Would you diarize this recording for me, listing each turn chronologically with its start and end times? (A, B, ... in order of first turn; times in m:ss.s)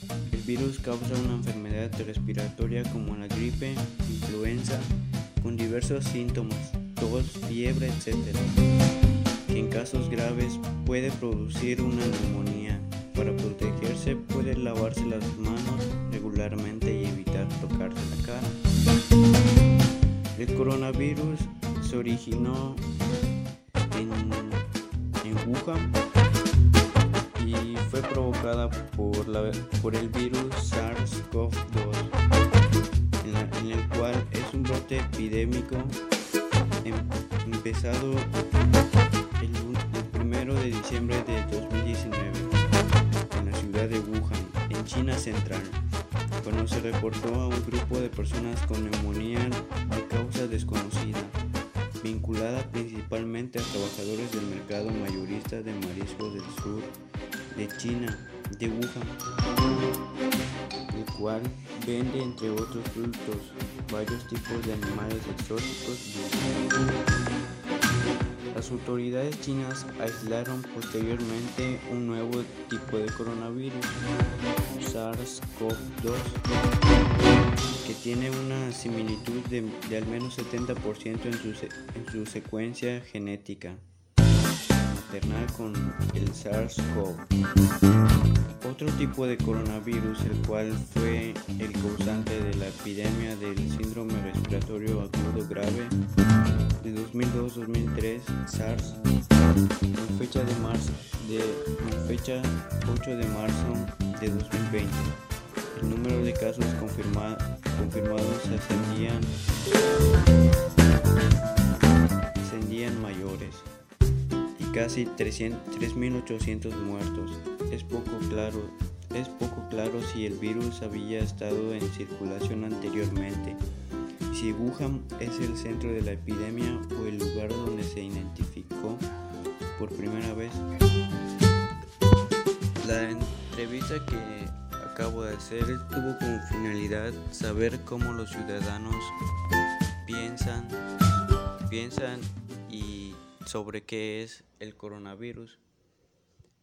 0:00.2-0:08.6 A
0:09.5-0:18.6 A
0:20.4-0:22.9 A
0:23.9-0:24.7 A
0:25.2-0:26.0 A
0:27.4-0:32.1 A
0:33.2-0:36.0 A
0:36.8-0:38.4 A
0:39.4-0:42.6 A
0:43.3-0:45.8 A
0:46.4-0:51.4 A
0:52.0-0:57.0 A
0:57.5-0:59.2 A
1:00.9-1:06.6 A
1:08.5-1:14.0 A
1:14.7-1:16.4 A
1:17.8-1:23.8 A
1:24.8-1:27.3 A
1:28.6-1:36.0 A
1:36.8-1:39.0 A
1:39.9-1:45.2 A
1:45.7-1:49.4 A
1:52.4-1:53.7 A
1:54.6-2:03.6 A
2:04.3-2:09.1 A
2:09.8-2:10.7 A
2:12.8-2:19.2 A
2:20.0-2:25.6 A